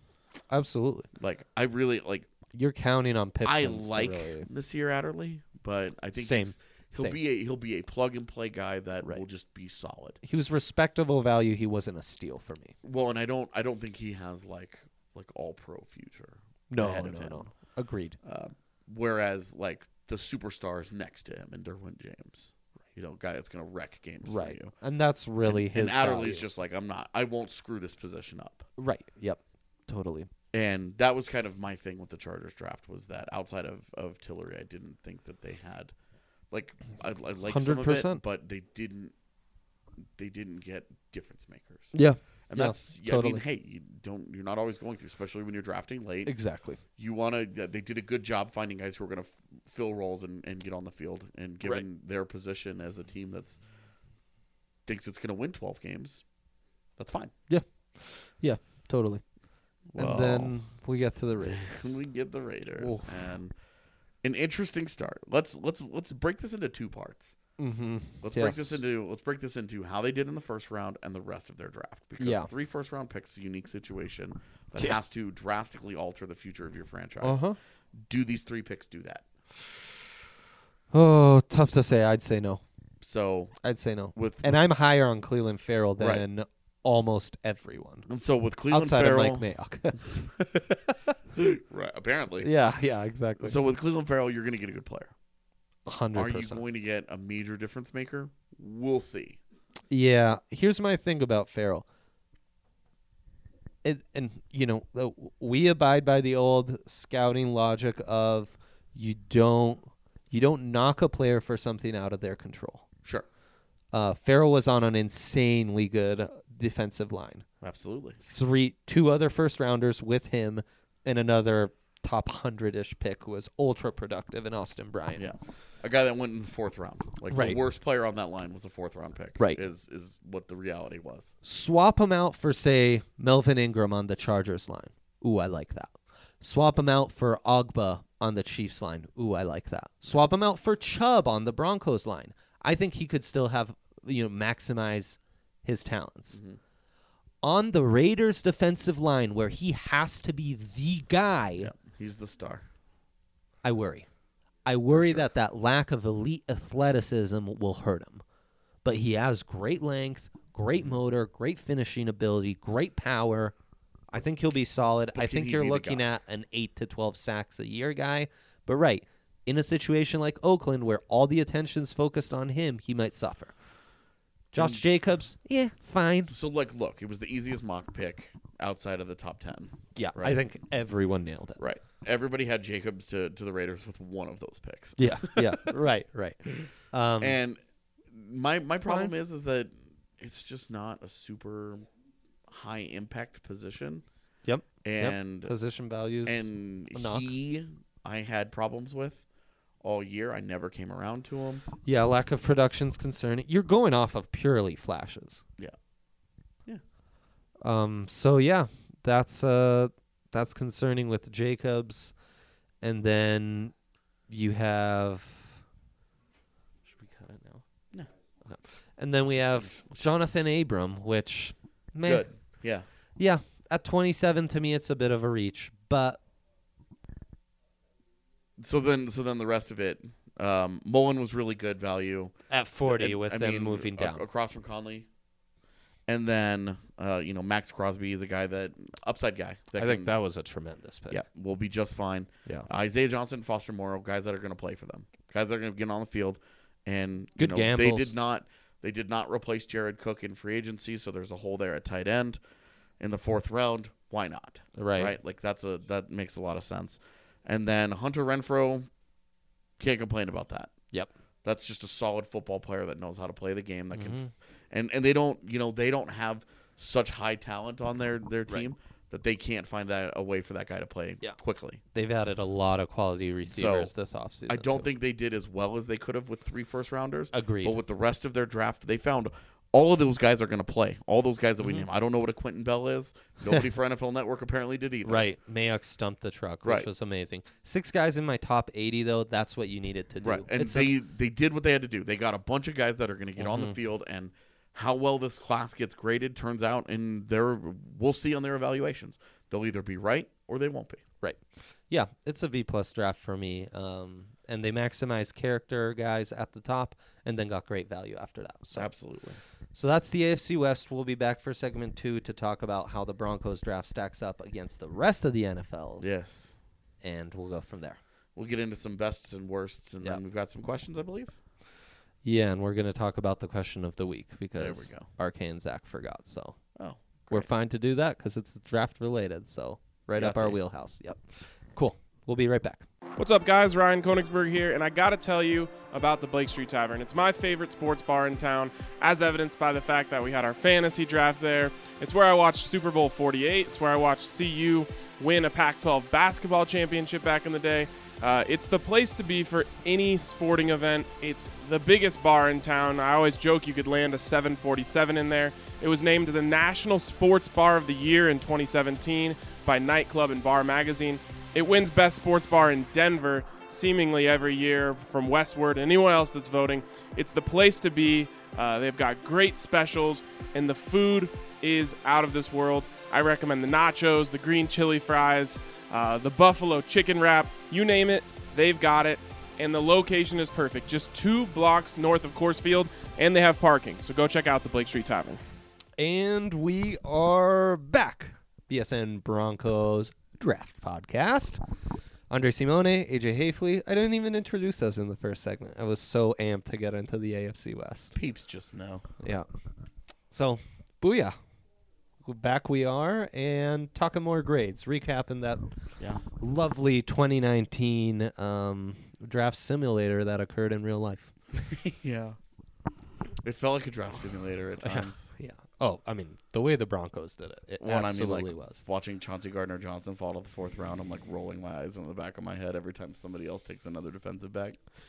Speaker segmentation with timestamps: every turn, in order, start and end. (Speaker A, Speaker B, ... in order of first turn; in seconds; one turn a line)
Speaker A: 0.5-1.1
Speaker B: 1.2-2.3
Speaker A: 2.5-4.5
Speaker B: 3.4-10.2
Speaker A: 6.1-7.2
Speaker A: 10.2-12.7
Speaker B: 12.8-17.5
Speaker A: 16.7-18.2
Speaker B: 18.2-24.7
Speaker A: 24.2-26.4
Speaker B: 25.4-28.7
Speaker A: 28.8-30.3
Speaker B: 30.5-35.9
Speaker B: 36.5-39.1
Speaker A: 37.4-38.2
Speaker B: 40.2-42.0
Speaker A: 41.9-43.4
Speaker B: 42.5-46.4
Speaker A: 46.2-46.8
Speaker B: 47.0-53.6
Speaker B: 54.9-56.2
Speaker B: 57.0-57.3
Speaker A: 57.5-59.2
Speaker B: 59.9-60.6
Speaker A: 60.0-61.9
Speaker B: 61.4-63.5
Speaker A: 62.8-63.3
Speaker B: 64.2-67.3
Speaker A: 67.6-68.8
Speaker B: 68.2-77.5
Speaker A: 72.2-72.5
Speaker A: 77.2-77.6
Speaker B: 78.0-79.3
Speaker A: 80.9-82.6
Speaker B: 83.0-83.6
Speaker A: 83.6-88.0
Speaker B: 84.1-84.5
Speaker B: 86.0-86.2
Speaker B: 88.1-89.5
Speaker A: 88.7-90.0
Speaker B: 91.3-92.5
Speaker A: 92.4-93.6
Speaker B: 93.4-95.1
Speaker A: 95.8-96.6
Speaker B: 96.1-99.4
Speaker A: 99.9-101.8
Speaker A: 103.8-112.8
Speaker A: 113.9-117.4
Speaker B: 117.6-118.2
Speaker A: 118.2-125.2
Speaker B: 125.2-131.3
Speaker A: 127.3-127.6
Speaker A: 131.4-146.4
Speaker B: 146.3-146.6
Speaker A: 147.4-151.7
Speaker B: 151.6-152.6
Speaker A: 153.6-154.1
Speaker A: 154.7-158.2
Speaker B: 154.9-155.2
Speaker A: 158.8-163.5
Speaker A: 164.1-173.5
Speaker B: 165.1-166.0
Speaker A: 174.5-176.3
Speaker B: 174.6-174.8
Speaker B: 176.3-180.4
Speaker A: 179.9-181.6
Speaker B: 181.6-185.7
Speaker A: 185.0-187.4
Speaker B: 187.2-187.6
Speaker B: 188.1-191.9
Speaker A: 188.8-189.1
Speaker B: 192.5-194.0
Speaker A: 194.4-197.2
Speaker B: 194.8-195.5
Speaker B: 196.2-199.2
Speaker B: 199.8-201.7
Speaker A: 201.8-205.4
Speaker A: 207.6-212.1
Speaker A: 212.8-213.7
Speaker A: 214.3-215.6
Speaker A: 216.8-217.6
Speaker A: 218.4-222.3
Speaker B: 219.3-220.0
Speaker B: 222.0-222.8
Speaker A: 223.2-226.2
Speaker B: 228.6-232.3
Speaker A: 232.5-234.2
Speaker B: 232.8-235.1
Speaker B: 236.1-240.1
Speaker A: 239.8-241.2
Speaker B: 241.1-252.4
Speaker A: 247.4-248.1
Speaker B: 253.0-258.9
Speaker A: 254.8-255.2
Speaker B: 259.8-260.7
Speaker B: 261.4-271.8
Speaker A: 263.9-264.3
Speaker A: 271.9-274.9
Speaker B: 273.5-273.9
Speaker B: 274.5-285.3
Speaker A: 277.3-277.8
Speaker A: 281.6-281.9
Speaker A: 285.0-290.9
Speaker B: 290.2-301.0
Speaker A: 293.4-293.8
Speaker A: 301.2-308.9
Speaker B: 308.8-309.4
Speaker A: 309.7-316.1
Speaker B: 316.0-316.5
Speaker A: 317.0-318.0
Speaker B: 318.4-321.3
Speaker A: 322.2-326.6
Speaker B: 324.6-325.1
Speaker B: 326.8-327.5
Speaker A: 327.3-331.2
Speaker B: 330.2-330.6
Speaker A: 331.7-332.9
Speaker C: 333.2-385.4
Speaker A: 386.0-391.6
Speaker A: 392.3-398.1
Speaker B: 398.1-399.0
Speaker A: 399.2-399.5
Speaker A: 400.3-401.4
Speaker A: 402.2-405.7
Speaker B: 406.0-406.2
Speaker A: 406.4-411.3
Speaker B: 411.5-412.4
Speaker B: 413.4-415.3
Speaker A: 414.8-418.8
Speaker B: 417.8-424.8